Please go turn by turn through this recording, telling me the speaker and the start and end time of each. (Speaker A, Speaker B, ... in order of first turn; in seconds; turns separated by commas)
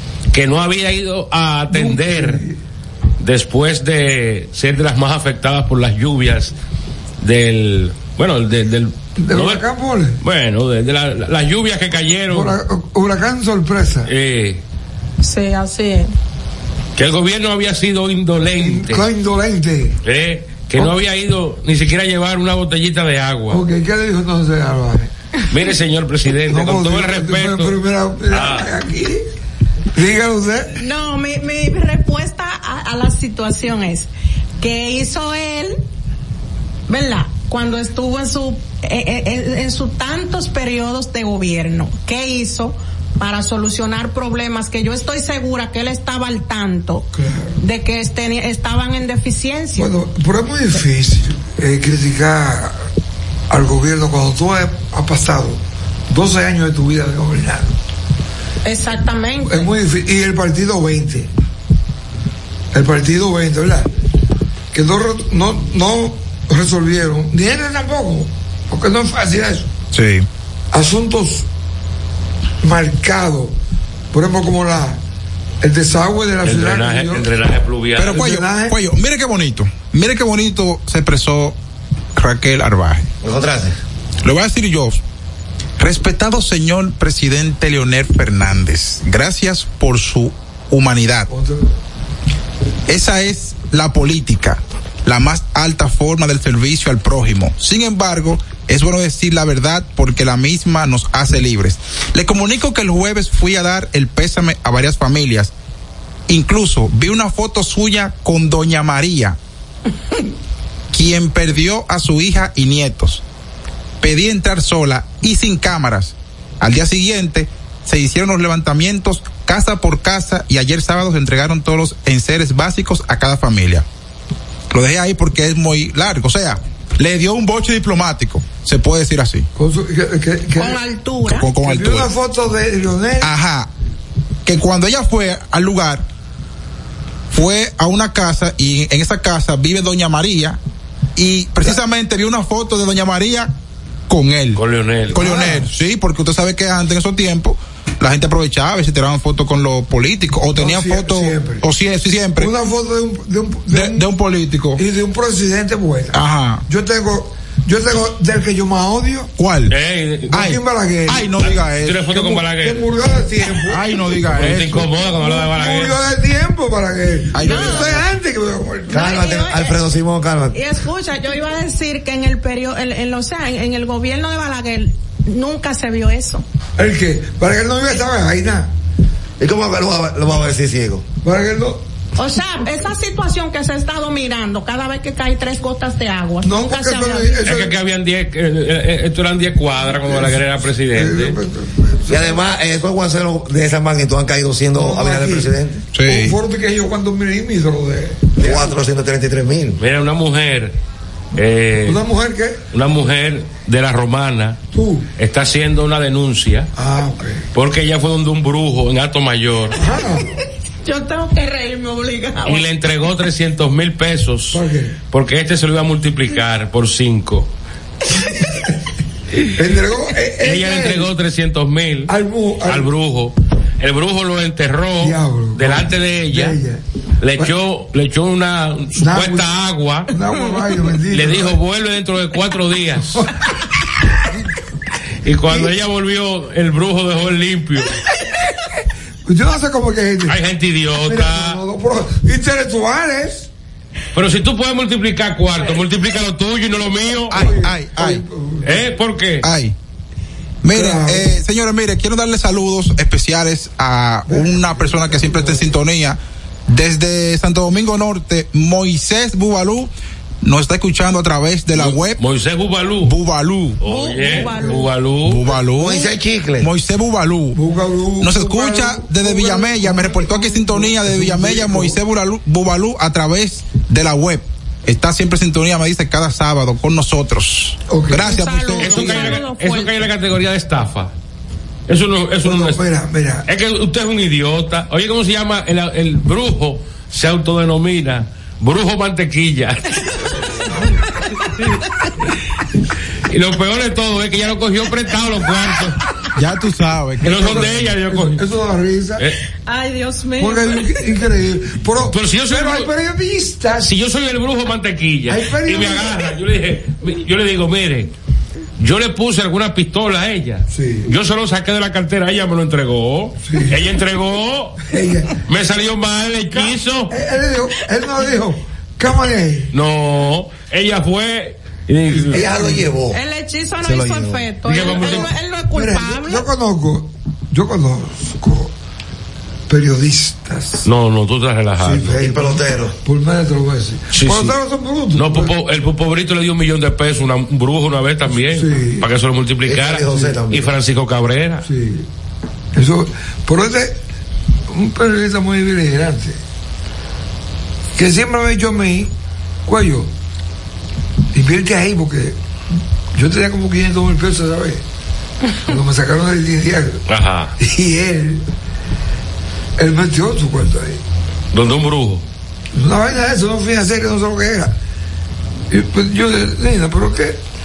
Speaker A: 0.3-2.4, Speaker B: 1.7-2.6, Speaker A: 3.2-6.5, Speaker A: 7.2-9.6, Speaker B: 9.2-10.2, Speaker A: 10.2-12.6, Speaker B: 12.3-14.1, Speaker A: 14.0-14.6, Speaker C: 15.2-16.1, Speaker A: 17.0-19.0, Speaker B: 18.6-20.0, Speaker A: 20.0-23.6, Speaker B: 23.5-25.1, Speaker A: 25.5-27.8, Speaker B: 26.5-29.2, Speaker A: 28.3-28.7, Speaker B: 29.9-30.8, Speaker C: 30.8-34.1, Speaker C: 34.6-35.8, Speaker C: 36.9-49.9, Speaker B: 47.1-47.6, Speaker B: 49.8-52.8, Speaker B: 53.5-57.8, Speaker C: 58.6-59.7, Speaker B: 59.5-61.3, Speaker B: 62.7-63.9, Speaker B: 64.7-69.7, Speaker D: 69.9-70.3, Speaker B: 70.7-71.5, Speaker B: 72.6-73.5, Speaker B: 74.1-75.0, Speaker B: 75.6-77.3, Speaker A: 76.4-78.3, Speaker D: 78.0-81.6, Speaker B: 78.1-78.8, Speaker D: 82.2-83.1, Speaker E: 83.2-83.8, Speaker D: 84.2-85.0, Speaker D: 85.8-91.3, Speaker B: 91.3-91.8, Speaker D: 92.9-105.5, Speaker D: 106.3-109.4, Speaker D: 110.9-113.2, Speaker D: 114.0-123.8, Speaker D: 124.7-129.5, Speaker B: 129.6-130.8, Speaker C: 130.6-131.5, Speaker D: 131.2-132.1, Speaker B: 131.6-133.3, Speaker D: 133.2-133.7, Speaker D: 134.4-136.1, Speaker D: 137.3-140.6, Speaker D: 141.2-143.5, Speaker D: 144.1-152.5, Speaker A: 144.6-145.3, Speaker B: 145.1-145.7, Speaker B: 150.6-151.7, Speaker B: 152.4-154.1, Speaker D: 153.7-154.8, Speaker B: 154.8-159.3, Speaker D: 156.1-156.6, Speaker D: 159.4-159.8, Speaker A: 159.7-160.4, Speaker B: 160.3-161.4, Speaker D: 160.3-162.4, Speaker A: 161.6-162.8, Speaker B: 162.5-163.9, Speaker D: 163.7-164.9, Speaker A: 164.3-166.0, Speaker B: 165.2-169.1, Speaker D: 167.3-168.1, Speaker C: 167.4-167.9, Speaker C: 168.9-169.8, Speaker E: 168.9-170.6, Speaker C: 170.5-176.4, Speaker B: 176.8-178.7, Speaker E: 179.4-181.0, Speaker B: 181.2-181.8, Speaker C: 182.2-187.5, Speaker B: 186.4-187.8, Speaker A: 187.4-191.4, Speaker B: 189.9-192.4, Speaker E: 192.1-195.8, Speaker B: 194.8-198.8, Speaker D: 195.9-196.4, Speaker E: 198.4-199.8, Speaker A: 199.8-200.8, Speaker A: 201.3-202.0, Speaker B: 201.8-202.6, Speaker A: 202.7-204.6, Speaker B: 204.7-205.1, Speaker A: 205.2-206.7, Speaker B: 206.8-207.4, Speaker A: 207.5-209.8, Speaker B: 209.8-210.4, Speaker C: 210.8-212.7, Speaker A: 212.5-214.6, Speaker B: 214.5-215.0, Speaker A: 215.1-217.5, Speaker B: 219.5-221.1, Speaker A: 220.4-222.1, Speaker B: 222.1-222.9, Speaker A: 222.6-226.6, Speaker B: 225.0-226.8, Speaker A: 227.2-230.1, Speaker B: 228.9-229.5, Speaker B: 230.1-231.6, Speaker A: 231.1-233.3, Speaker A: 235.2-238.0, Speaker B: 239.2-240.4, Speaker A: 240.2-241.6, Speaker B: 241.0-243.5, Speaker A: 244.1-247.5, Speaker D: 247.3-248.2, Speaker B: 247.3-248.8, Speaker A: 248.6-249.5, Speaker D: 249.4-249.8, Speaker D: 250.6-259.9, Speaker B: 250.7-251.3, Speaker B: 254.3-255.7, Speaker D: 260.4-262.2, Speaker A: 261.7-263.1, Speaker D: 263.0-263.8, Speaker A: 263.8-265.5, Speaker C: 263.8-264.9, Speaker B: 264.3-264.8, Speaker D: 265.2-267.6, Speaker E: 265.7-266.7, Speaker B: 267.5-272.0, Speaker D: 268.2-279.4, Speaker B: 277.9-278.3, Speaker C: 278.2-280.1, Speaker A: 278.8-281.1, Speaker A: 281.9-282.8, Speaker B: 282.4-283.5, Speaker A: 283.5-290.1, Speaker A: 291.4-291.8, Speaker A: 293.3-296.0, Speaker D: 296.4-297.9, Speaker A: 297.2-298.4, Speaker B: 297.2-299.3, Speaker C: 299.6-301.1, Speaker B: 300.4-303.9, Speaker A: 302.1-302.9, Speaker A: 303.8-308.1, Speaker B: 305.3-306.3, Speaker A: 308.8-314.9, Speaker B: 310.7-311.1, Speaker B: 313.5-313.9, Speaker B: 314.9-315.4, Speaker A: 315.4-317.1, Speaker B: 316.5-319.7, Speaker A: 319.7-322.5, Speaker E: 322.3-323.2, Speaker B: 322.4-322.9, Speaker C: 323.1-326.5, Speaker E: 323.8-324.5, Speaker A: 324.7-325.3, Speaker B: 324.7-328.7, Speaker B: 329.7-330.9, Speaker A: 330.8-332.2, Speaker B: 331.8-335.5, Speaker E: 332.1-333.0, Speaker A: 334.1-334.6, Speaker A: 335.1-341.6, Speaker B: 338.4-339.1, Speaker E: 339.6-340.7, Speaker B: 340.1-340.4, Speaker B: 341.6-342.1, Speaker B: 342.7-344.0, Speaker B: 344.7-346.4, Speaker B: 348.0-349.1, Speaker B: 349.6-350.1, Speaker B: 351.3-352.4, Speaker B: 353.1-354.8, Speaker B: 355.6-357.0, Speaker A: 357.1-357.5, Speaker B: 357.6-358.4, Speaker B: 359.8-361.0, Speaker A: 361.5-362.2, Speaker B: 362.7-364.8, Speaker B: 365.7-367.4